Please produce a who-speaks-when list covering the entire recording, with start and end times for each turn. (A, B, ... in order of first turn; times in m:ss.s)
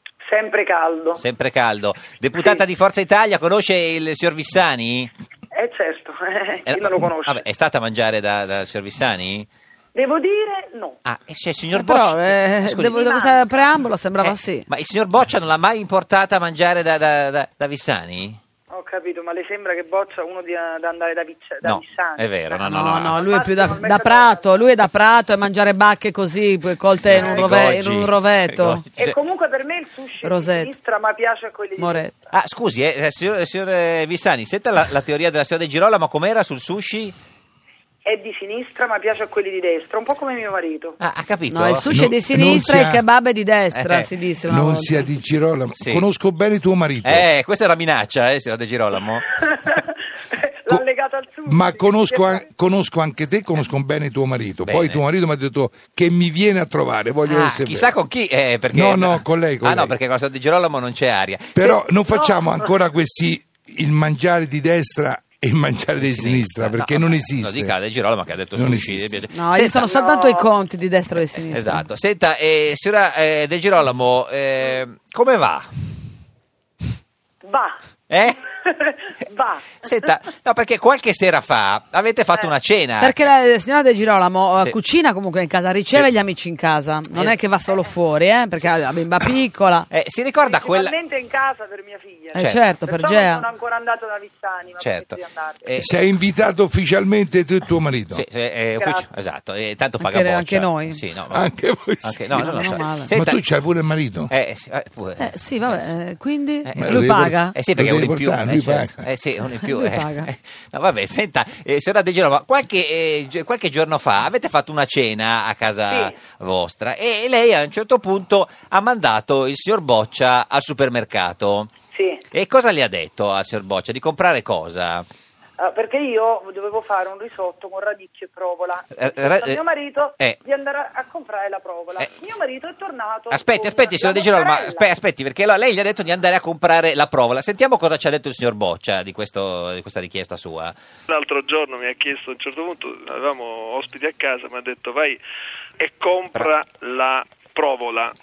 0:00.2-0:01.2 A
0:01.2-0:05.1 B
0:02.4-0:02.6 A
0:05.5-0:07.4 A
0:06.6-0:09.5 B
0:09.9-0:11.0 A
0:11.0-0:12.9 B
0:11.7-0:14.6 C
0:12.9-0:13.8 A
0:14.2-0:18.4 B
0:18.7-0:24.7 A
0:21.6-0:23.2 B
0:22.6-0:28.8 C
0:27.0-0:29.1 B
0:27.1-0:27.6 A
0:29.0-0:32.1 A
0:30.2-0:30.7 C
0:31.8-0:32.1 C
0:32.3-0:37.1 B
0:38.0-0:41.0 A
0:41.0-0:41.9 B
0:41.5-0:45.1 C
0:41.9-0:43.0 D
0:43.7-0:44.1 B
0:44.5-0:47.3 D
0:45.7-0:46.0 B
0:47.0-0:49.4 B
0:49.4-0:52.4 A
0:51.4-0:57.9 D
0:54.6-0:55.0 B
0:57.2-1:01.8 B
0:58.7-0:59.9 D
1:01.5-1:07.7 D
1:02.1-1:02.7 A
1:06.0-1:09.9 B
1:08.5-1:09.1 D
1:09.3-1:11.8 C
1:09.8-1:10.5 A
1:11.5-1:15.7 B
1:17.4-1:17.8 A
1:18.1-1:18.4 B
1:18.5-1:20.1 A
1:19.8-1:23.2 B
1:23.0-1:29.9 C
1:29.9-1:30.9 B
1:30.4-1:35.6 A
1:32.3-1:33.5 C
1:32.4-1:32.6 B
1:34.8-1:35.9 B
1:35.8-1:38.2 D
1:38.1-1:41.5 B
1:38.8-1:39.1 A
1:40.0-1:41.0 C
1:41.3-1:44.3 D
1:42.0-1:43.4 B
1:42.3-1:43.1 C
1:44.3-1:45.9 B
1:45.2-1:47.6 C
1:46.6-2:01.7 B
1:46.8-1:49.0 D
1:49.6-1:50.3 C
1:55.9-1:56.1 A
2:01.9-2:02.2 A
2:02.3-2:05.0 B
2:05.6-2:14.9 A
2:08.9-2:09.6 B
2:13.3-2:20.7 B
2:21.1-2:25.2 E
2:25.8-2:28.1 E